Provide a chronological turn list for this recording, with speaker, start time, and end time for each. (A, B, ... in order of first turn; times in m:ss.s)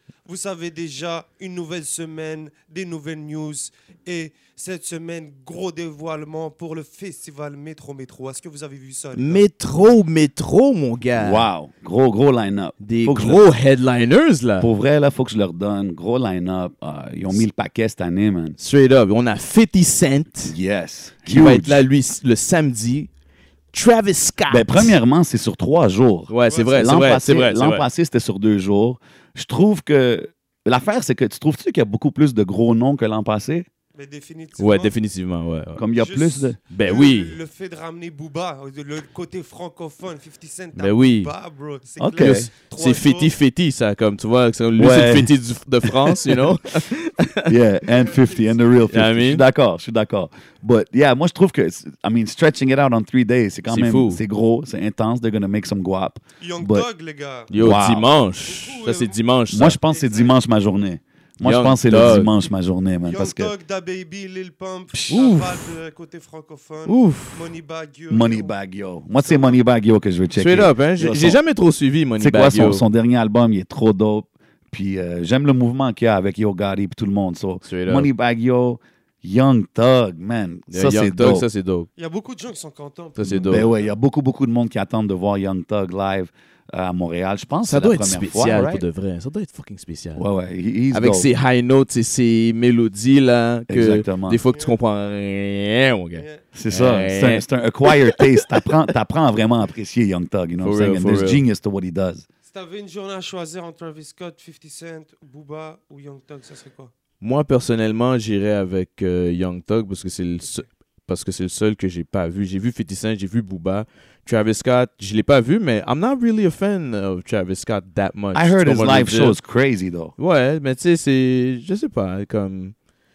0:00.2-0:09.4 A
0:09.2-0:11.4 B
0:11.1-0:13.4 C
0:12.8-0:14.7 B
0:14.6-0:18.6 C
0:18.6-0:20.6 B
0:20.4-0:21.8 C
0:21.2-0:23.1 B
0:23.7-0:25.0 B
0:24.5-0:33.6 C
0:26.3-0:27.8 B
0:26.5-0:27.0 A
0:33.9-0:35.0 A
0:34.6-0:35.8 B
0:35.8-0:36.6 C
0:35.9-0:43.3 A
0:36.7-0:37.4 B
0:40.8-0:41.3 B
0:42.0-0:42.5 C
0:42.2-0:47.6 B
0:44.8-0:45.3 C
0:45.8-0:46.4 C
0:47.4-0:56.9 C
0:47.9-0:48.5 A
0:48.9-0:49.4 B
0:53.7-0:54.2 B
0:56.4-0:59.2 A
0:57.5-0:59.8 B
0:57.5-0:58.1 C
0:59.5-1:03.5 C
0:59.8-1:00.3 A
1:01.4-1:02.3 B
1:03.0-1:08.5 A
1:04.9-1:05.2 C
1:05.1-1:05.6 B
1:06.9-1:07.5 B
1:08.1-1:11.4 C
1:09.2-1:09.6 A
1:10.4-1:12.8 B
1:12.2-1:21.4 C
1:17.6-1:18.1 B
1:20.7-1:21.9 B
1:22.0-1:23.9 A
1:23.2-1:23.7 B
1:23.5-1:28.8 C
1:27.6-1:30.2 B
1:30.2-1:31.3 C
1:30.9-1:38.7 B
1:33.7-1:34.4 C
1:34.5-1:34.8 A
1:36.2-1:36.4 A
1:36.5-1:42.2 C
1:40.6-1:41.4 B
1:42.4-1:46.9 A
1:47.2-1:59.4 B
1:58.3-2:00.1 C
2:00.2-2:02.7 B